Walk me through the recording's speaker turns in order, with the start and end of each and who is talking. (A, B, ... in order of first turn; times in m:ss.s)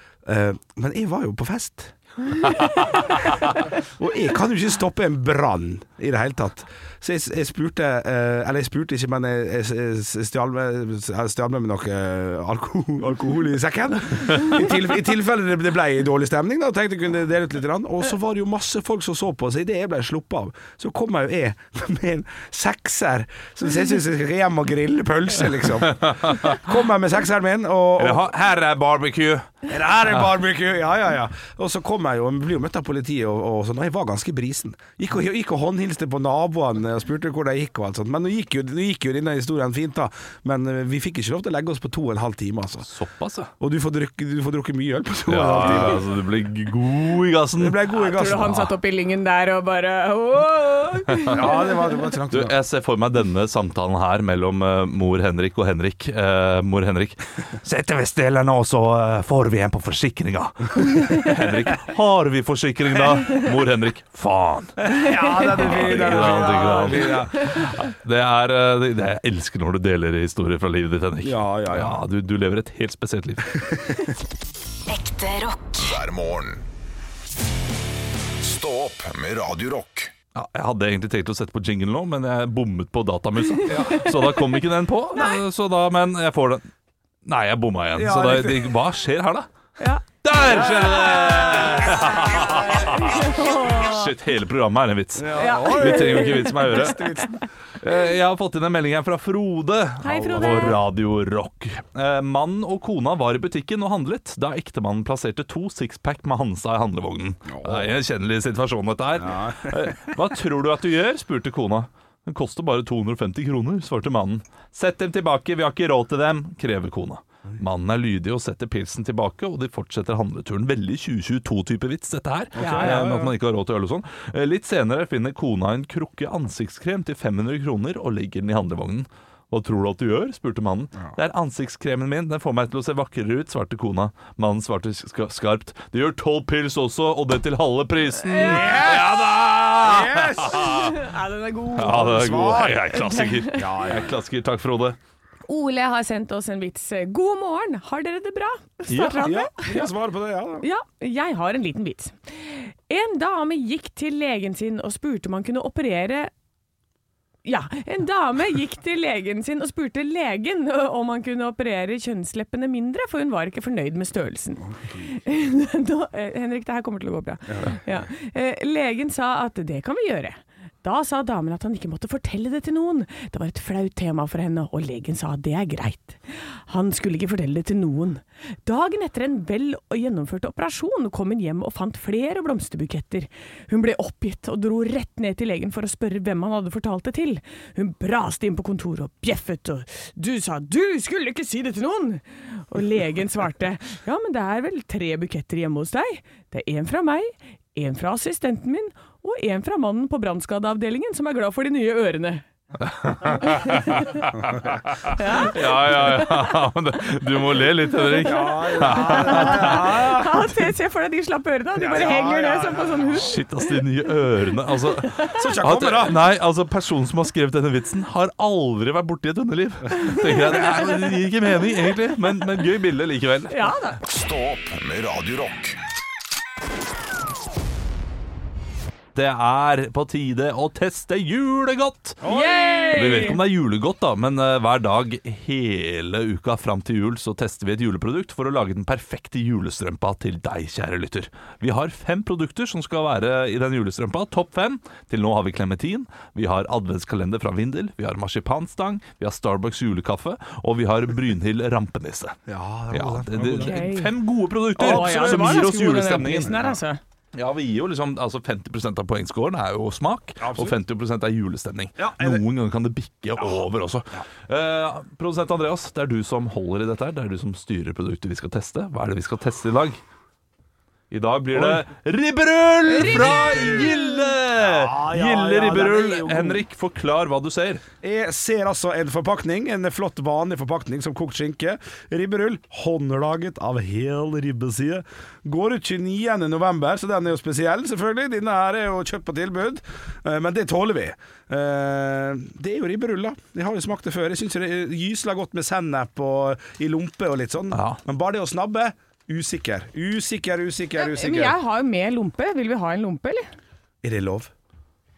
0:00.2-0:28.2 A
0:25.9-0:26.6 B
0:28.0-0:29.5 B
0:29.7-0:42.9 A
0:42.8-0:43.5 B
0:43.6-0:46.0 A
0:45.3-0:48.7 B
0:47.6-0:48.5 A
0:47.9-0:51.9 C
0:51.1-0:51.4 B
0:51.3-0:52.6 A
0:52.3-1:04.8 B
1:04.8-1:07.6 A
1:05.2-1:07.6 C
1:05.5-1:13.8 B
1:11.2-1:12.0 A
1:14.9-1:16.7 D
1:18.4-1:20.1 D
1:20.3-1:26.6 B
1:23.6-1:24.6 C
1:23.7-1:24.0 A
1:25.1-1:25.4 C
1:27.2-1:29.5 B
1:27.9-1:28.8 A
1:30.2-1:37.1 B
1:30.4-1:32.7 A
1:32.8-1:34.1 C
1:35.2-1:37.4 A
1:35.4-1:37.3 C
1:37.8-2:21.0 B
1:40.0-1:40.8 C
1:40.2-1:40.7 A
1:47.5-1:47.9 A
1:49.2-1:50.0 A
2:02.6-2:03.3 A
2:02.6-2:03.0 C
2:18.2-2:18.9 C
2:18.3-2:20.9 A
2:20.5-2:23.7 C
2:21.7-2:25.0 B
2:21.8-2:22.9 A
2:23.5-2:24.1 A
2:25.5-2:29.9 C
2:28.9-2:29.3 B
2:29.2-2:30.6 A
2:30.6-2:36.3 C
2:37.4-3:22.4 C
2:44.7-2:45.1 A
2:47.5-2:47.8 A
3:22.8-3:29.9 B
3:23.3-3:24.2 C
3:25.0-3:26.5 C
3:28.0-3:33.4 C
3:28.2-3:30.5 A
3:31.8-3:33.1 A
3:33.1-3:43.7 B
3:34.9-3:35.4 C
3:35.3-3:36.2 A
3:39.9-3:41.0 C
3:43.5-3:44.0 C
3:44.0-3:45.8 D
3:49.1-3:52.2 B
3:52.2-3:52.9 A
3:52.2-3:53.4 C
3:52.9-4:12.4 B
4:12.5-4:13.8 A
4:12.9-4:16.6 B
4:13.6-4:14.1 C
4:14.8-4:17.0 C
4:14.8-4:15.6 A
4:17.3-4:30.0 B
4:20.4-4:20.8 A
4:22.0-4:22.4 A
4:31.1-4:37.8 B
4:31.5-4:31.8 A
4:33.0-4:33.9 C
4:33.2-4:33.6 A
4:34.6-4:36.6 A
4:38.0-5:01.6 A
4:57.7-4:58.0 B
5:00.9-5:03.5 C
5:04.0-5:04.5 A